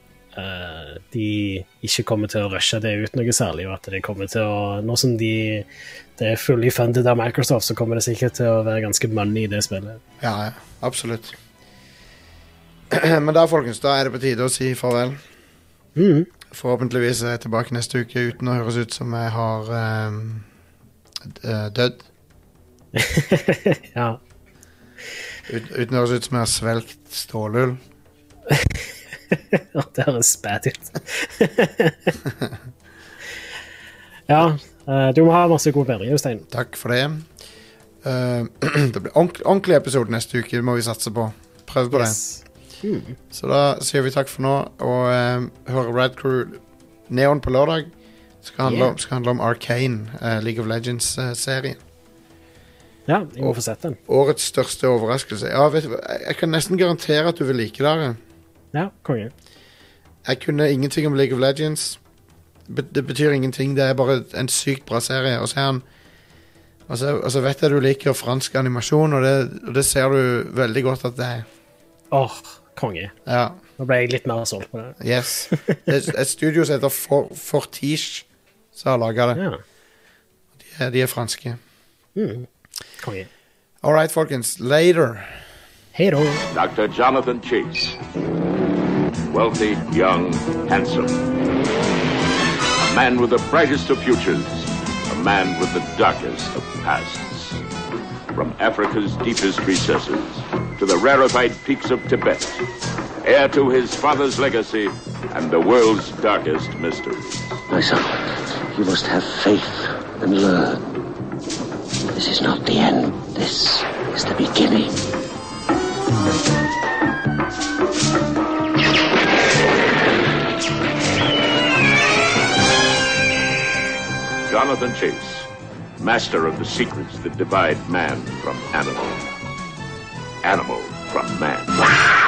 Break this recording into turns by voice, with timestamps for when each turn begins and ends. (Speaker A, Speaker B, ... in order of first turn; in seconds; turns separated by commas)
Speaker A: 0.3-10.0, Speaker B: 10.2-11.4, Speaker B: 12.9-15.2, Speaker A: 16.0-16.3, Speaker B: 16.5-20.5, Speaker B: 21.3-22.1, Speaker A: 22.9-24.2, Speaker B: 25.5-27.8, Speaker A: 28.5-32.2, Speaker A: 34.3-36.4, Speaker B: 36.5-37.3, Speaker B: 38.0-42.2, Speaker A: 41.9-43.2, Speaker B: 43.3-47.9, Speaker B: 48.4-51.8, Speaker A: 48.6-48.9, Speaker A: 53.1-54.0, Speaker B: 53.4-58.2, Speaker A: 58.7-59.3, Speaker B: 60.2-62.0, Speaker B: 62.7-65.8, Speaker B: 66.9-71.5, Speaker A: 72.1-73.1, Speaker B: 73.3-73.6, Speaker A: 73.8-75.9, Speaker B: 75.0-79.4, Speaker A: 79.4-79.6, Speaker B: 80.6-81.6, Speaker A: 82.2-82.5, Speaker A: 83.0-83.3, Speaker B: 83.8-85.4, Speaker A: 85.9-86.4, Speaker C: 86.5-88.0, Speaker C: 89.3-91.2, Speaker C: 92.8-97.6, Speaker C: 98.3-102.7, Speaker C: 103.2-107.6, Speaker D: 107.7-110.8, Speaker D: 112.1-115.0, Speaker C: 124.5-129.3, Speaker C: 130.4-132.1